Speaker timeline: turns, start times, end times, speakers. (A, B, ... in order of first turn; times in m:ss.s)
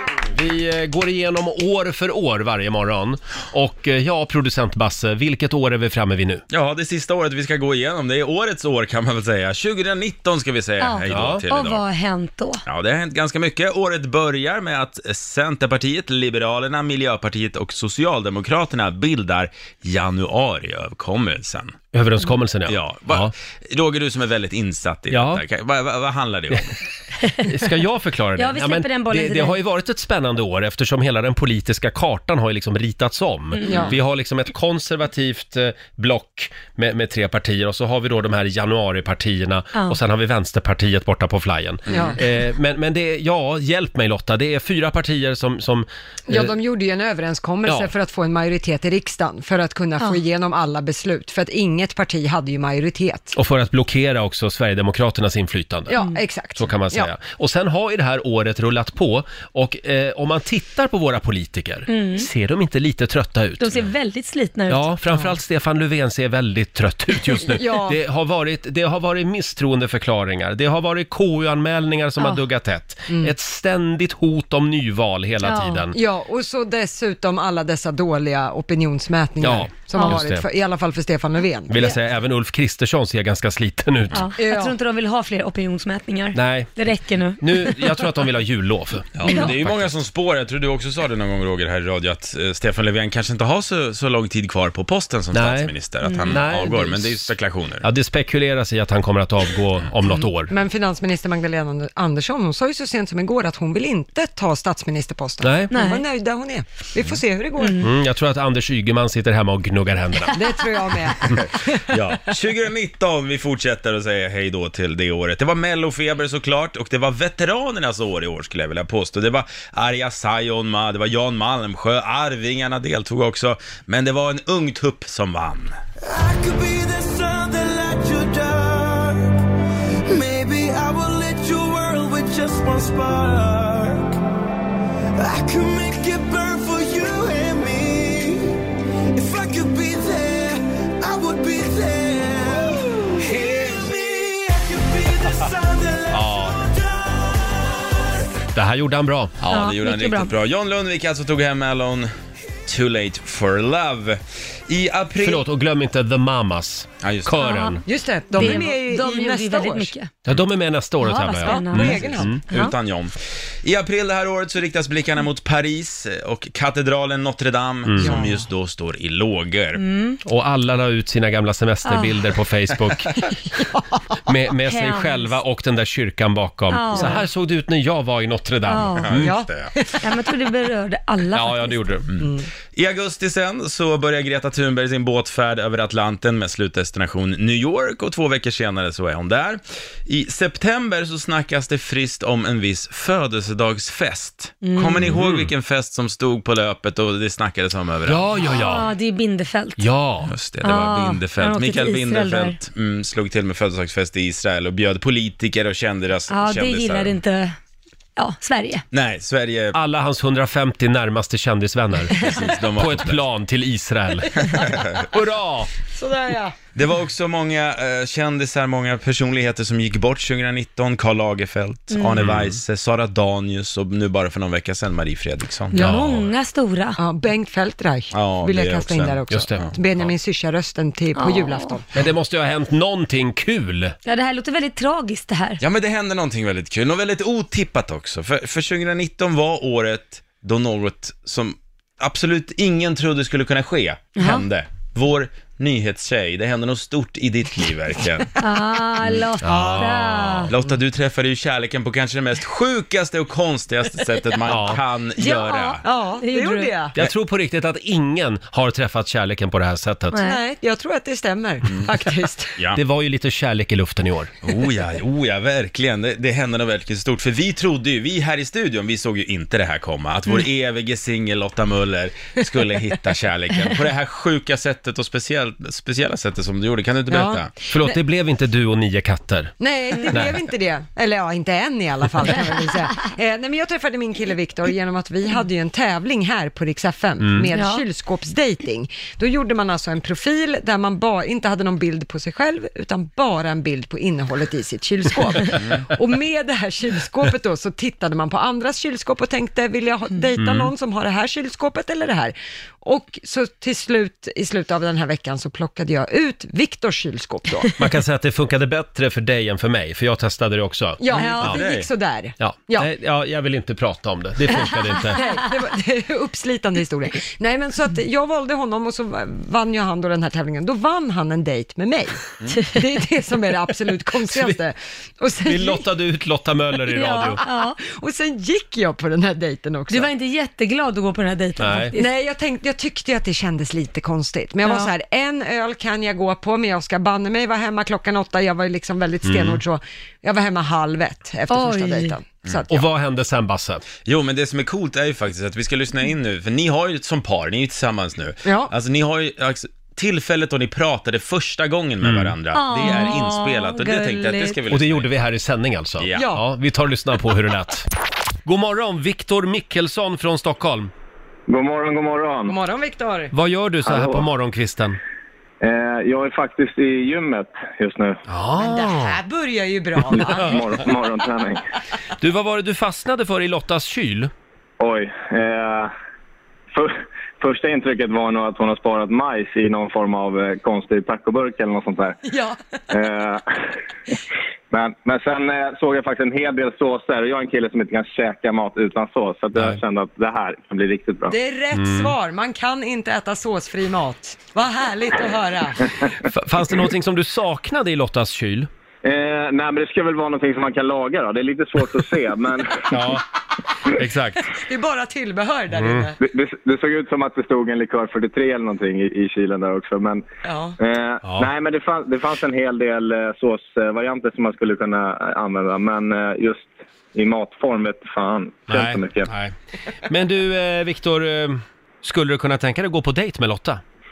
0:00.3-0:06.4 A
0:06.5-0:11.8 B
0:10.8-0:12.6 C
0:11.1-0:11.4 A
0:12.6-0:21.8 B
0:21.9-0:23.3 A
0:22.7-0:26.6 B
0:25.1-0:25.4 A
0:27.4-0:46.5 A
0:28.4-0:29.6 C
0:33.5-0:33.8 C
0:33.6-0:34.0 D
0:41.9-0:42.2 D
0:46.3-0:53.3 D
0:53.3-0:56.0 A
0:55.9-0:57.1 D
0:56.6-1:03.8 A
1:01.9-1:02.3 C
1:03.6-1:04.9 C
1:04.7-1:16.0 A
1:07.4-1:08.0 D
1:13.1-1:13.3 D
1:15.4-1:15.8 C
1:15.9-1:22.0 D
1:19.4-1:20.4 A
1:21.7-1:24.3 A
1:24.1-1:28.0 C
1:24.4-1:24.8 D
1:26.3-1:26.7 A
1:27.4-1:29.9 A
1:29.1-1:37.8 B
1:35.3-1:35.7 A
1:36.0-1:36.4 C
1:36.3-1:40.5 A
1:40.0-1:47.8 D
1:45.4-1:45.7 A
1:45.7-1:46.0 C
1:47.6-1:47.9 C
1:47.8-1:50.4 A
1:50.3-1:52.0 D
1:51.8-2:05.8 B
2:06.0-2:09.4 E
2:10.1-2:14.2 E
2:15.2-2:18.6 E
2:19.1-2:28.0 E
2:26.1-2:26.6 A
2:28.5-2:29.6 A
2:29.5-2:32.1 B
2:29.5-2:30.3 C
2:32.6-2:35.4 B
2:35.2-2:37.8 A
2:37.0-2:37.4 B
2:37.4-2:37.8 C
2:37.8-2:39.9 D
2:38.3-2:40.1 C
2:40.2-2:42.4 A
2:41.0-2:42.7 C
2:41.4-2:42.4 D
2:42.5-2:49.8 B
2:47.8-2:48.2 A
2:48.0-2:48.4 D
2:49.8-2:50.2 C
2:50.2-2:53.2 A
2:51.8-2:52.1 C
2:53.6-2:53.9 D
2:54.2-2:59.3 A
2:54.6-2:55.4 C
2:56.7-2:57.2 C
2:58.7-2:59.1 C
2:59.0-2:59.7 B
2:59.2-3:00.1 D
3:00.0-3:01.8 C
3:01.3-3:02.1 A
3:02.1-3:18.3 B
3:02.2-3:02.5 D
3:14.6-3:15.0 C
3:15.0-3:15.5 A
3:18.0-3:18.9 A
3:18.4-3:19.8 C
3:19.8-3:20.3 A
3:20.3-3:27.2 B
3:20.6-3:22.6 C
3:26.3-3:27.6 C
3:28.2-3:28.8 C
3:28.9-3:29.8 B
3:29.7-3:35.7 A
3:32.2-3:33.2 B
3:34.4-3:35.1 B
3:35.9-3:36.6 D
3:36.7-3:45.8 B
3:41.9-3:42.2 C
3:42.2-3:42.6 A
3:45.7-3:47.0 C
3:45.7-3:46.3 A
3:47.0-3:51.9 D
3:48.1-3:49.7 B
3:49.3-3:49.6 A
3:51.2-3:51.8 C
3:51.9-3:54.0 A
3:54.0-3:55.6 C
3:55.6-4:08.4 B
4:04.2-4:04.4 C
4:08.4-4:10.5 C
4:09.4-4:10.5 A
4:10.5-4:15.8 B
4:14.5-4:14.8 A
4:15.2-4:16.7 C
4:15.8-4:16.9 D
4:17.0-4:20.2 A
4:20.1-4:20.4 C
4:20.2-4:22.6 D
4:22.7-4:24.3 A
4:24.4-4:37.5 B
4:37.1-4:37.4 D
4:37.7-4:39.5 A
4:39.6-5:07.8 D
4:40.1-4:40.4 A
4:47.2-4:47.5 A
4:47.5-4:47.8 C
5:00.4-5:00.7 A
5:07.8-5:11.6 A
5:11.0-5:12.9 D
5:11.1-5:11.5 C
5:11.1-5:11.9 B
5:12.4-5:15.2 A
5:15.1-5:25.8 D
5:24.3-5:24.6 A
5:25.4-5:27.4 A
5:26.9-5:27.8 C
5:27.4-5:30.1 D
5:29.9-5:32.1 C
5:31.6-5:31.9 A
5:31.9-5:42.8 D
5:34.6-5:34.9 C
5:39.2-5:39.6 A
5:41.5-5:42.2 C
5:42.7-5:43.8 A
5:44.0-5:55.1 B
5:48.4-5:48.7 D
5:52.0-5:52.3 A
5:52.5-5:54.6 C
5:54.7-5:57.9 A
5:56.0-5:56.3 B
5:56.1-5:56.4 D
5:58.4-6:00.9 A
6:01.5-6:02.5 F
6:02.5-6:03.3 D
6:03.3-6:05.0 A
6:03.8-6:04.2 F
6:05.6-6:08.2 F
6:08.3-6:09.2 A
6:08.6-6:10.7 D
6:10.1-6:11.6 F
6:10.2-6:10.7 A
6:12.2-6:14.3 A
6:14.8-6:15.9 F
6:16.7-6:22.2 F
6:22.2-6:22.6 D
6:22.9-6:23.6 F
6:24.7-6:31.3 F
6:31.3-6:35.9 D
6:31.7-6:32.1 A
6:36.2-6:38.7 A
6:39.0-6:43.0 F
6:42.9-6:43.2 A
6:43.8-6:44.5 A
6:44.5-6:46.2 D
6:45.7-6:46.1 A
6:46.2-6:50.2 F
6:50.4-6:50.8 D
6:50.8-6:59.3 F
6:51.2-6:51.5 A
6:58.7-6:59.5 A
7:00.0-7:03.8 A